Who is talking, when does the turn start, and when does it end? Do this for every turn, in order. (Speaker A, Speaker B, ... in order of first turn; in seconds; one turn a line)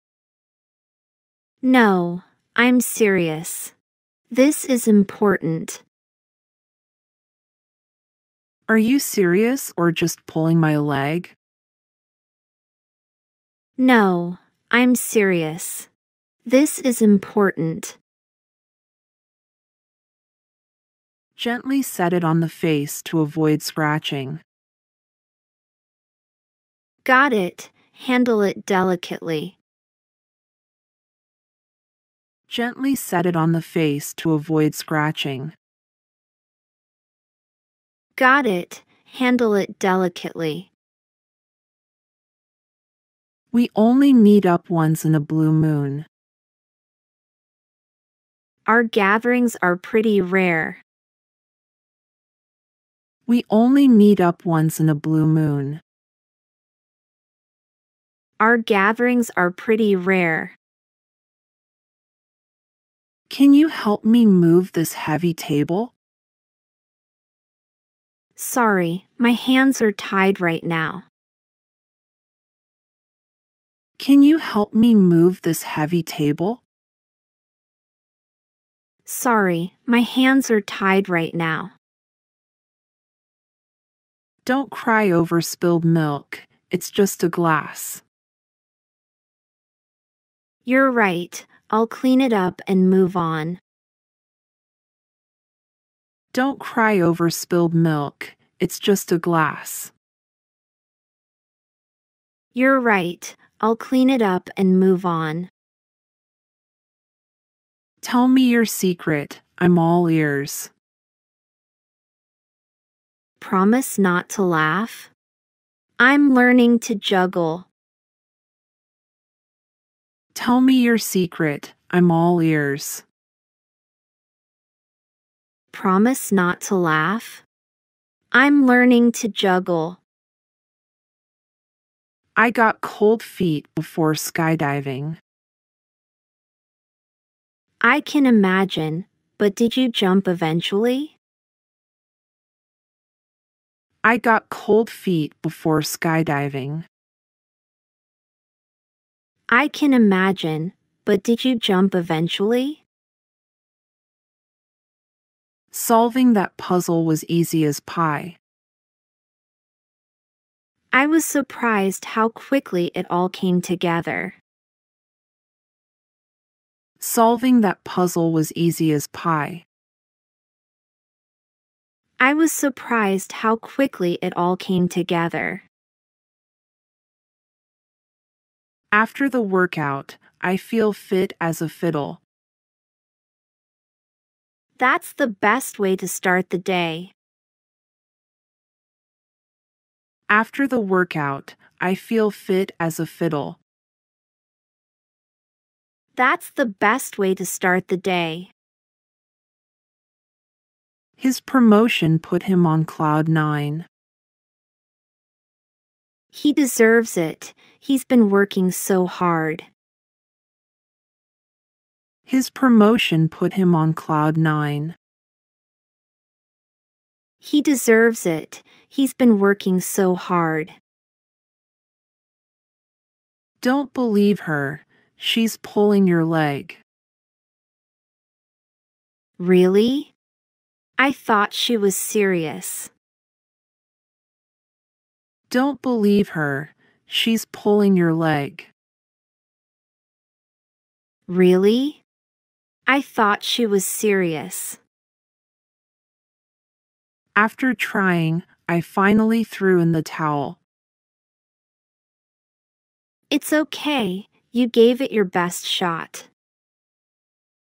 Speaker A: 1.6-3.7
Speaker A: 4.3-5.8
Speaker B: 8.7-11.3
Speaker A: 13.8-15.9
Speaker A: 16.5-18.0
Speaker B: 21.4-24.4
Speaker A: 27.1-29.6
Speaker B: 32.5-35.5
Speaker A: 38.2-40.7
Speaker B: 43.5-46.1
Speaker A: 48.7-50.8
Speaker B: 53.3-55.8
Speaker A: 58.4-60.5
Speaker B: 63.3-65.9
Speaker A: 68.4-71.0
Speaker B: 74.0-76.6
Speaker A: 79.1-81.7
Speaker B: 84.5-88.0
Speaker A: 90.7-93.6
Speaker B: 96.3-99.9
Speaker A: 102.5-105.5
Speaker B: 108.0-110.7
Speaker A: 113.4-115.1
Speaker A: 116.0-117.7
Speaker B: 120.3-123.0
Speaker A: 125.7-127.4
Speaker A: 128.3-130.0
Speaker B: 132.3-135.2
Speaker A: 137.8-141.2
Speaker B: 144.0-146.9
Speaker A: 149.5-152.8
Speaker B: 155.7-158.4
Speaker A: 160.9-164.4
Speaker B: 167.0-169.7
Speaker A: 172.2-175.7
Speaker B: 178.9-182.2
Speaker A: 184.8-187.1
Speaker B: 190.3-193.6
Speaker A: 196.2-198.5
Speaker B: 201.2-203.9
Speaker A: 206.3-209.7
Speaker B: 212.3-215.0
Speaker A: 217.4-220.8
Speaker B: 223.6-226.8
Speaker A: 229.4-230.1
Speaker A: 231.0-232.9
Speaker B: 235.5-238.7
Speaker A: 241.3-242.0
Speaker A: 242.9-244.8
Speaker B: 247.3-250.6
Speaker A: 253.3-256.3